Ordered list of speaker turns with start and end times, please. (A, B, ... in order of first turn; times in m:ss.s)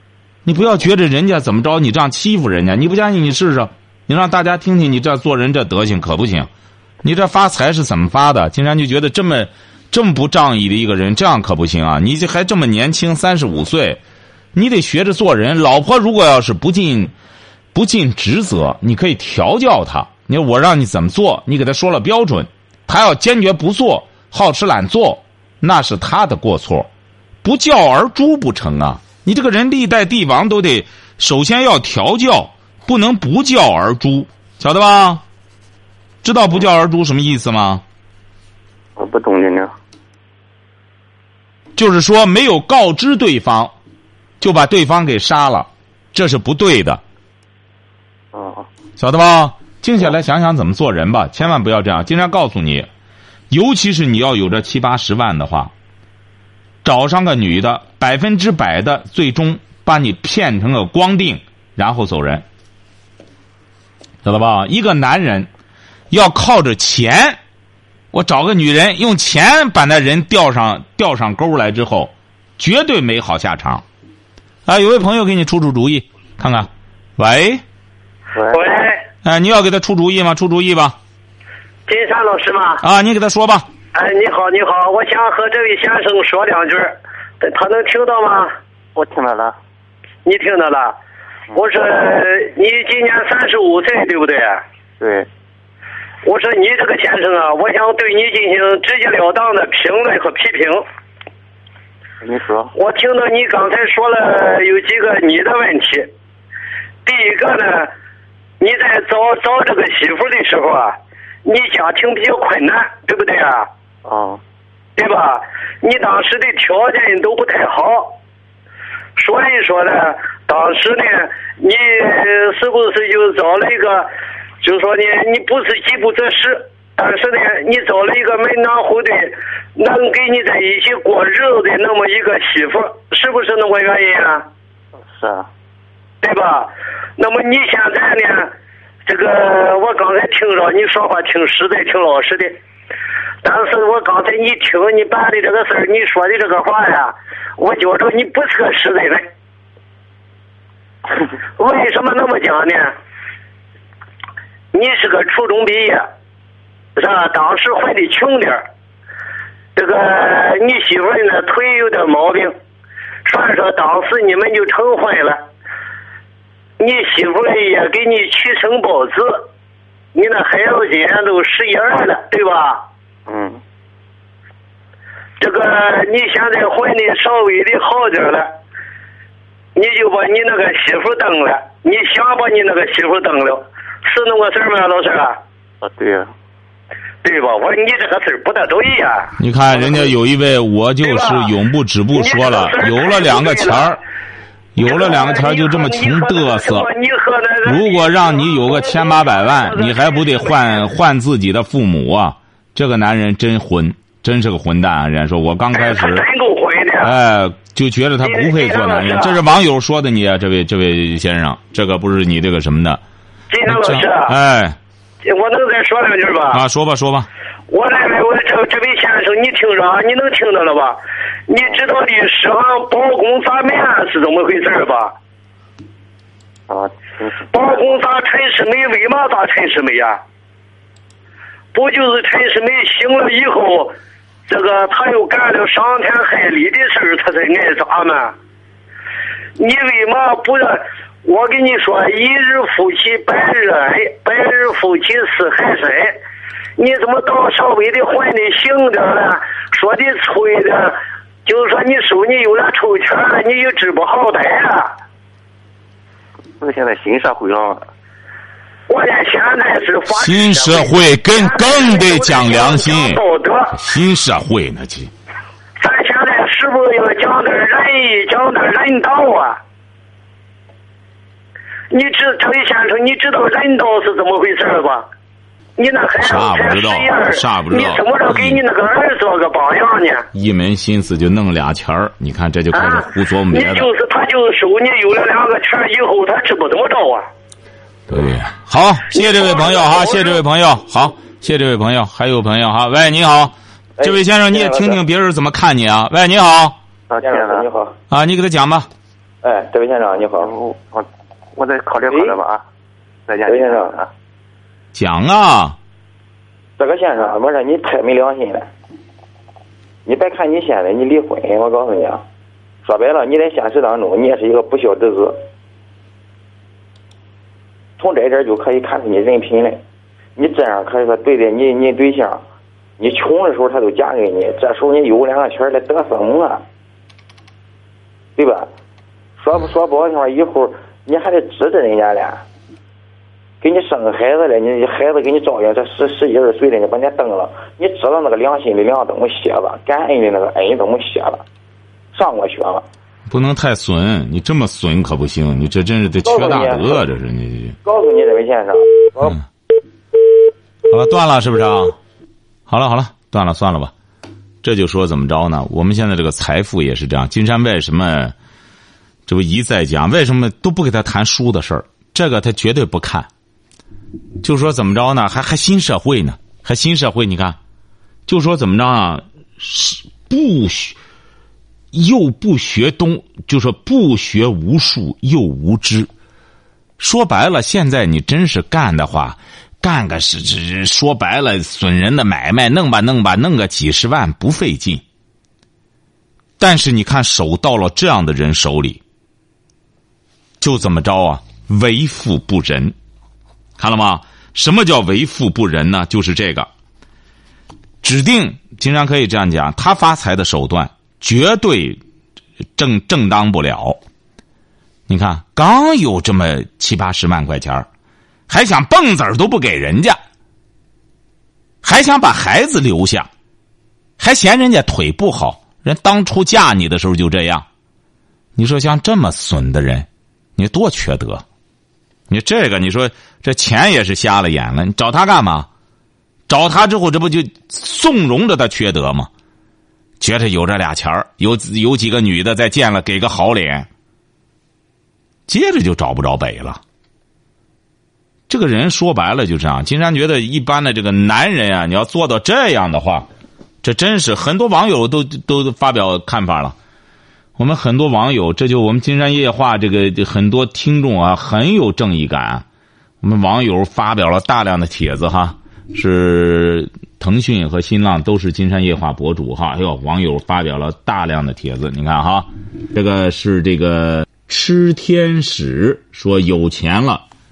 0:00.4-0:06.5 A
0:07.0-0:14.0 A
0:14.5-0:17.1 A
0:17.7-0:26.9 A
0:27.4-0:35.2 A
0:36.2-0:37.8 A
0:39.0-0:39.7 B
0:41.8-0:43.8 A
0:44.4-0:47.0 A
0:48.3-0:48.7 B
0:49.0-0:52.9 A
0:53.5-0:55.7 A
0:56.8-1:02.4 A
1:04.2-1:05.5 A
1:06.1-1:07.4 A
1:08.1-1:13.8 A
1:14.7-1:17.6 A
1:18.3-1:18.8 B
1:18.5-1:19.0 C
1:19.2-1:21.0 A
1:21.9-1:22.8 C
1:22.8-1:23.7 A
1:23.9-1:28.5 C
1:29.0-1:29.6 B
1:30.2-1:31.0 C
1:31.5-1:34.6 C
1:35.0-1:35.3 B
1:36.2-1:40.8 C
1:42.2-1:42.7 B
1:42.8-1:46.1 C
1:47.0-1:47.9 C
1:48.6-1:53.7 C
1:54.0-1:54.4 B
1:55.0-1:58.2 C
1:59.2-2:04.1 C
2:04.6-2:14.5 C
2:15.0-2:15.5 B
2:16.2-2:18.5 C
2:19.0-2:22.6 C
2:23.4-2:29.3 C
2:31.6-2:32.9 C
2:34.7-2:36.0 C
2:37.0-2:38.6 C
2:39.8-2:42.5 C
2:43.2-2:45.4 C
2:46.8-2:49.5 C
2:50.1-2:52.8 C
2:53.3-2:53.6 B
2:55.4-2:58.5 C
2:59.8-3:05.4 C
3:05.8-3:06.3 B
3:07.2-3:10.1 C
3:09.4-3:14.0 A
3:11.0-3:11.5 C
3:12.2-3:14.0 C
3:14.8-3:16.9 A
3:14.8-3:20.8 C
3:17.6-3:26.2 A
3:25.7-3:27.1 C
3:27.0-3:33.0 A
3:28.2-3:29.4 C
3:33.5-3:34.3 C
3:33.7-3:34.8 A
3:35.2-3:36.6 C
3:36.5-3:37.3 A
3:37.7-3:45.2 C
3:46.7-3:48.0 B
3:47.5-3:50.2 C
3:51.7-3:53.9 C
3:54.5-3:58.3 C
3:59.6-4:06.2 C
4:06.8-4:14.9 C
4:16.6-4:17.9 B
4:18.9-4:23.8 C
4:20.1-4:23.2 A
4:23.7-4:25.1 A
4:25.8-4:29.6 C
4:31.9-4:35.1 C
4:35.8-4:40.2 C
4:36.2-4:38.6 A
4:40.3-4:43.9 A
4:42.7-4:47.3 C
4:48.1-4:56.8 A
4:49.1-4:50.4 C
4:54.0-4:55.0 D
4:57.1-4:57.7 B
4:57.2-4:58.0 D
4:58.1-4:58.9 A
4:59.4-5:00.5 D
5:00.4-5:02.6 B
5:02.1-5:02.4 D
5:03.3-5:04.1 B
5:03.5-5:04.0 D
5:04.9-5:05.8 A
5:06.8-5:08.7 D
5:10.1-5:12.2 D
5:12.8-5:15.4 D
5:18.0-5:19.8 D
5:20.4-5:22.4 D
5:23.0-5:26.6 D
5:28.4-5:28.7 D
5:29.4-5:32.4 D
5:33.6-5:41.4 D
5:42.1-5:42.8 D
5:43.3-5:47.8 A
5:46.2-5:47.1 D
5:47.8-5:49.4 D
5:50.9-5:52.0 A
5:52.7-5:53.9 A
5:54.6-5:58.4 A
5:59.3-6:03.3 A
6:04.4-6:07.6 A
6:08.3-6:11.0 A
6:11.9-6:16.1 A
6:17.0-6:25.0 A
6:26.6-6:29.0 A
6:30.6-6:33.0 A
6:33.8-6:36.7 A
6:38.0-6:42.0 A
6:42.8-6:44.0 A
6:45.1-6:47.9 A
6:48.5-6:50.2 A
6:51.8-6:53.3 A
6:54.2-6:57.7 A
6:58.6-7:01.4 A
7:02.3-7:05.7 A
7:06.5-7:09.3 A
7:10.2-7:13.9 A
7:15.5-7:16.8 A
7:18.5-7:23.3 A
7:23.8-7:26.8 A
7:27.6-7:32.6 A
7:33.2-7:47.2 A